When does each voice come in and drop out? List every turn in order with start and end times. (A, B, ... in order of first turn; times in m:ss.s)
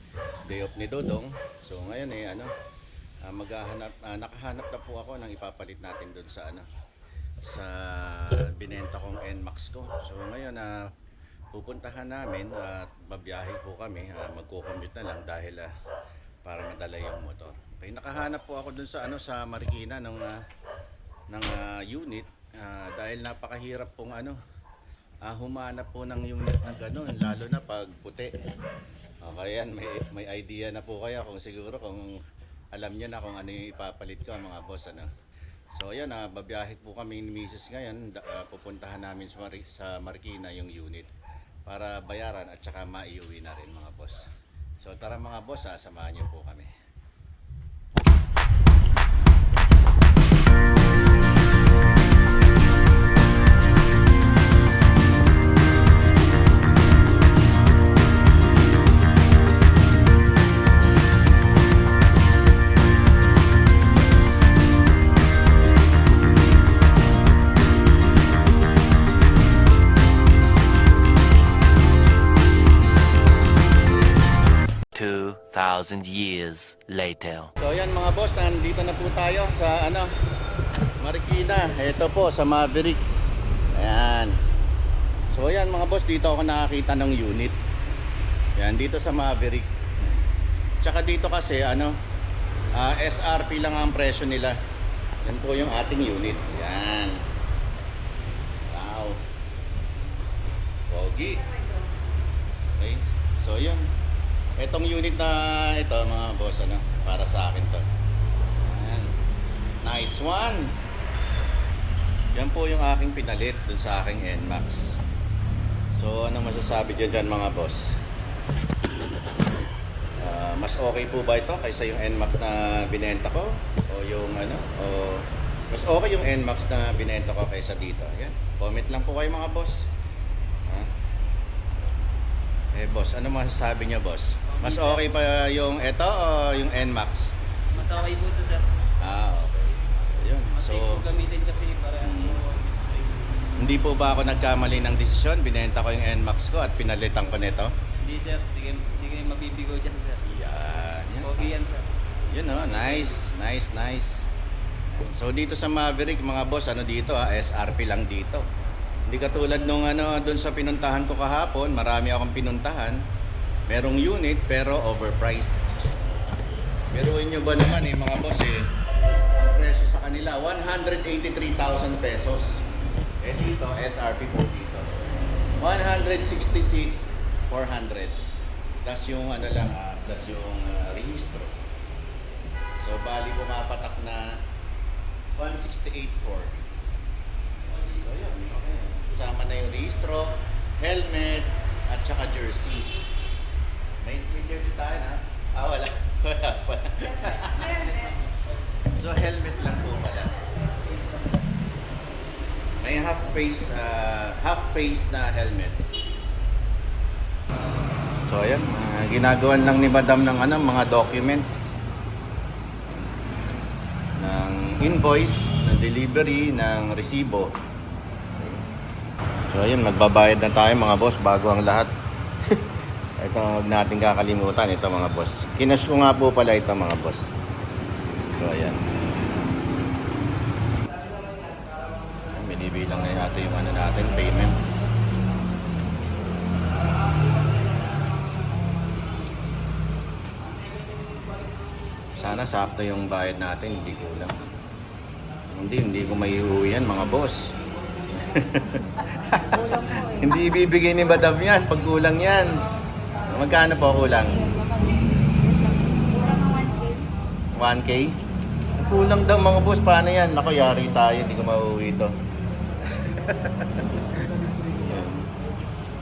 0:00.4-0:02.5 A
0:03.2-0:06.7 A
0:07.4-0:10.9 A
0:11.5-0:15.7 A
0:16.4-0:20.4 A
0:21.3-0:24.4 A
0:25.2-0:28.3 A
0:29.2-0:32.2 A
0:32.7-0:35.1 A
0:35.7-0:41.1 A
0:41.6-0:44.3 A
0:44.8-0:46.7 A
1:14.9-1:17.5 B
1:17.6-1:20.1 A
1:21.0-1:23.0 A
1:23.7-1:24.4 A
1:25.3-1:27.6 A
1:28.6-1:30.2 A
1:30.8-1:32.0 A
1:32.7-1:34.6 A
1:35.2-1:37.2 A
1:38.7-1:39.2 A
1:40.9-1:41.5 A
1:42.7-1:43.9 A
1:44.6-1:47.9 A
1:48.6-1:49.2 A
1:49.8-1:50.8 A
1:52.3-1:55.0 A
1:56.0-1:58.0 A
2:00.2-2:09.9 A
2:10.7-2:10.9 A
2:12.7-2:17.4 A
2:14.6-2:15.0 C
2:17.7-2:18.6 C
2:19.0-2:21.1 A
2:20.6-2:23.3 C
2:22.0-2:22.4 A
2:23.6-2:27.7 A
2:28.0-2:30.2 C
2:30.2-2:31.6 A
2:31.2-2:31.9 C
2:32.3-2:34.3 A
2:32.5-2:33.2 C
2:34.9-2:38.4 A
2:39.1-2:43.0 A
2:43.7-2:45.9 A
2:46.9-2:48.7 A
2:49.4-2:52.6 A
2:53.2-2:55.0 A
2:55.6-2:58.2 A
2:58.8-3:01.6 A
3:02.8-3:04.4 A
3:05.3-3:06.6 A
3:07.6-3:13.0 A
3:14.0-3:18.1 A
3:18.8-3:20.5 A
3:22.8-3:25.8 A
3:28.2-3:31.8 A
3:34.2-3:37.6 A
3:38.3-3:38.6 A
3:39.5-3:41.9 A
3:42.5-3:47.3 A
3:48.3-3:48.8 A
3:52.3-3:54.6 A
4:02.1-4:04.4 A
4:05.5-4:07.5 A
4:08.1-4:12.6 A
4:13.2-4:14.6 A
4:17.5-4:18.2 A
4:18.7-4:22.1 A
4:22.8-4:25.3 A